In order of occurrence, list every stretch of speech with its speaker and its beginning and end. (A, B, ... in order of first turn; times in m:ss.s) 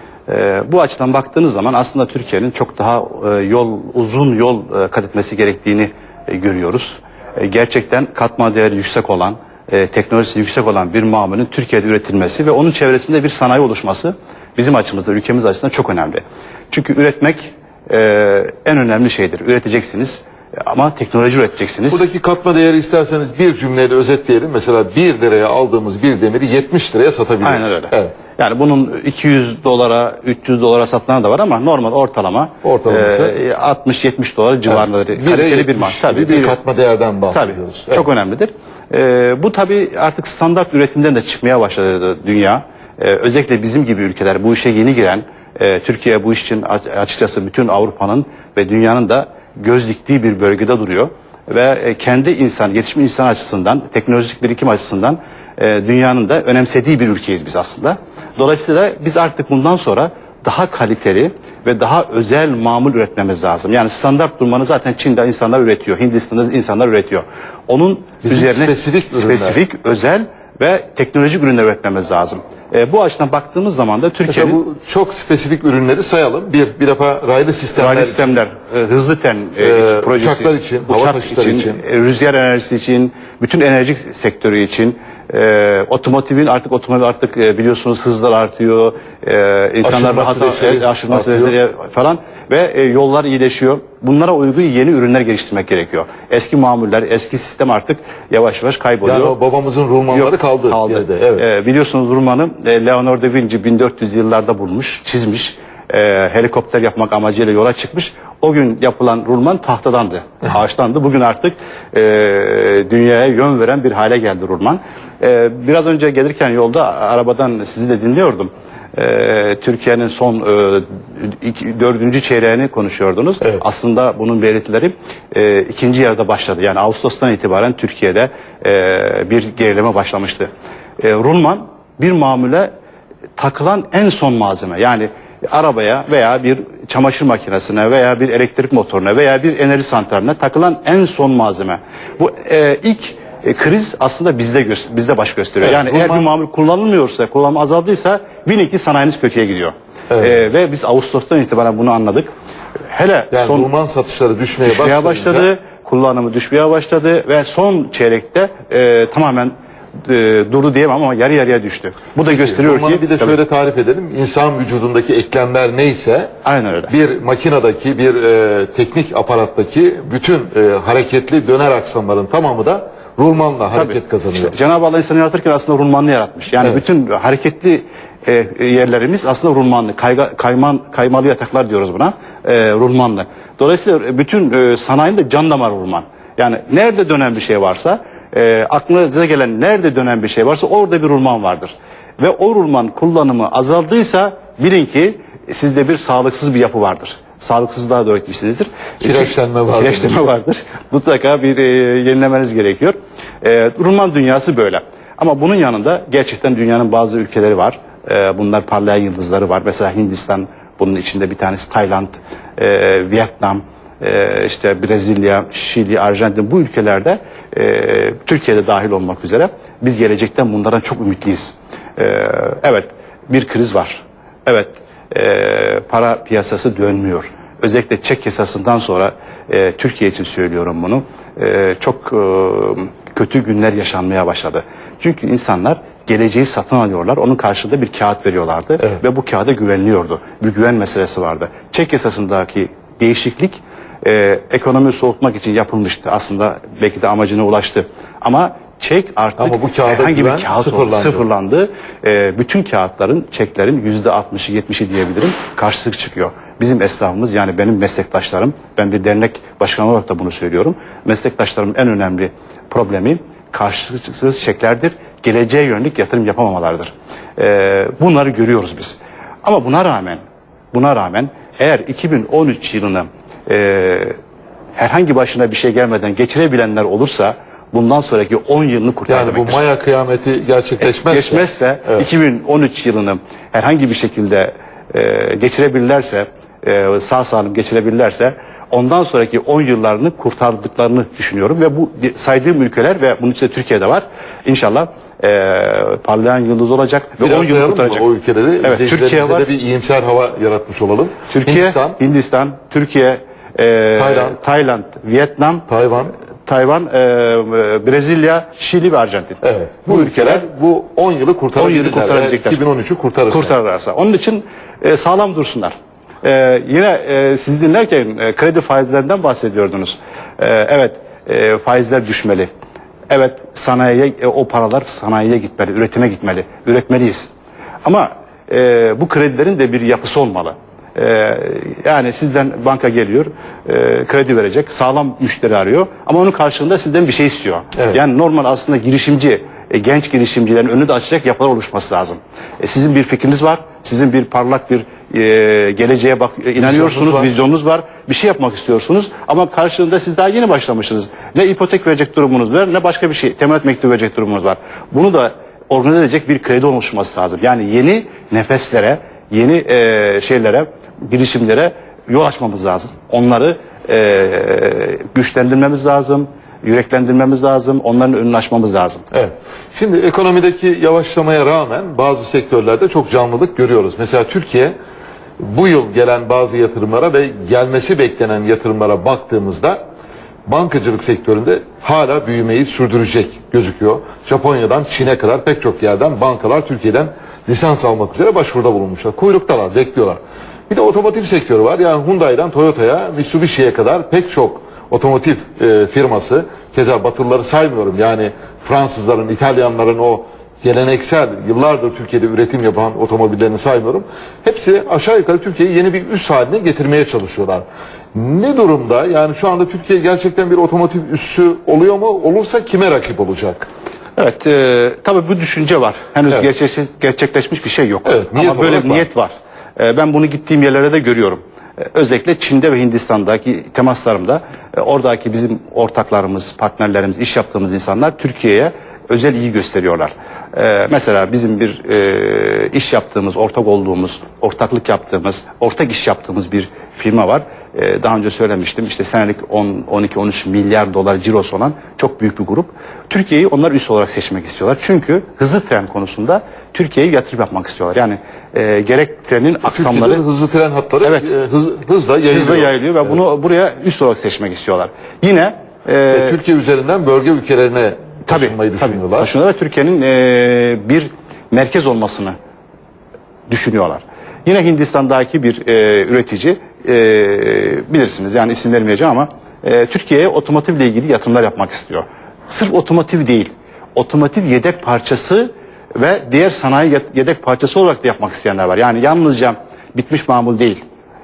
0:00.3-0:22.0 A
0:21.9-0:28.2 B
0:27.4-0:36.6 A
0:32.6-0:33.4 B
0:34.7-0:38.1 B
0:37.3-1:14.6 A
1:08.2-1:09.6 B
1:14.3-1:18.4 B
1:17.8-1:39.4 A
1:19.6-1:21.8 B
1:29.8-1:31.6 B
1:39.0-1:41.5 B
1:40.1-2:10.5 A
2:11.0-2:12.7 A
2:13.4-2:32.3 A
2:25.6-2:26.3 B
2:30.1-2:30.4 B
2:32.9-2:33.7 A
2:33.3-2:35.5 B
2:34.6-2:39.5 A
2:40.0-2:43.4 A
2:42.2-2:46.3 B
2:46.4-2:46.9 A
2:46.9-2:54.6 B
2:53.7-4:30.2 A
3:19.0-3:20.2 B
4:09.4-4:11.2 B
4:30.7-4:34.2 A
4:34.8-4:39.6 A
4:39.1-4:42.0 B
4:40.8-4:58.1 A
4:57.2-5:02.0 B
4:58.6-4:59.5 A
5:01.3-5:05.7 A
5:04.0-5:04.4 B
5:05.7-5:06.2 B
5:06.5-5:10.5 A
5:09.4-5:13.6 B
5:11.6-5:12.6 A
5:13.3-5:22.5 A
5:23.1-5:27.3 A
5:27.8-6:09.0 A
5:37.8-5:38.0 B
5:46.6-5:47.3 B
6:09.1-6:14.7 B
6:15.4-6:19.8 B
6:20.5-6:53.7 B
6:54.2-7:30.2 A
6:58.0-6:59.1 B
7:29.7-7:33.2 B
7:31.0-7:31.3 A
7:32.3-7:36.4 A
7:36.1-7:39.3 B
7:38.3-7:42.4 A
7:43.5-8:00.8 A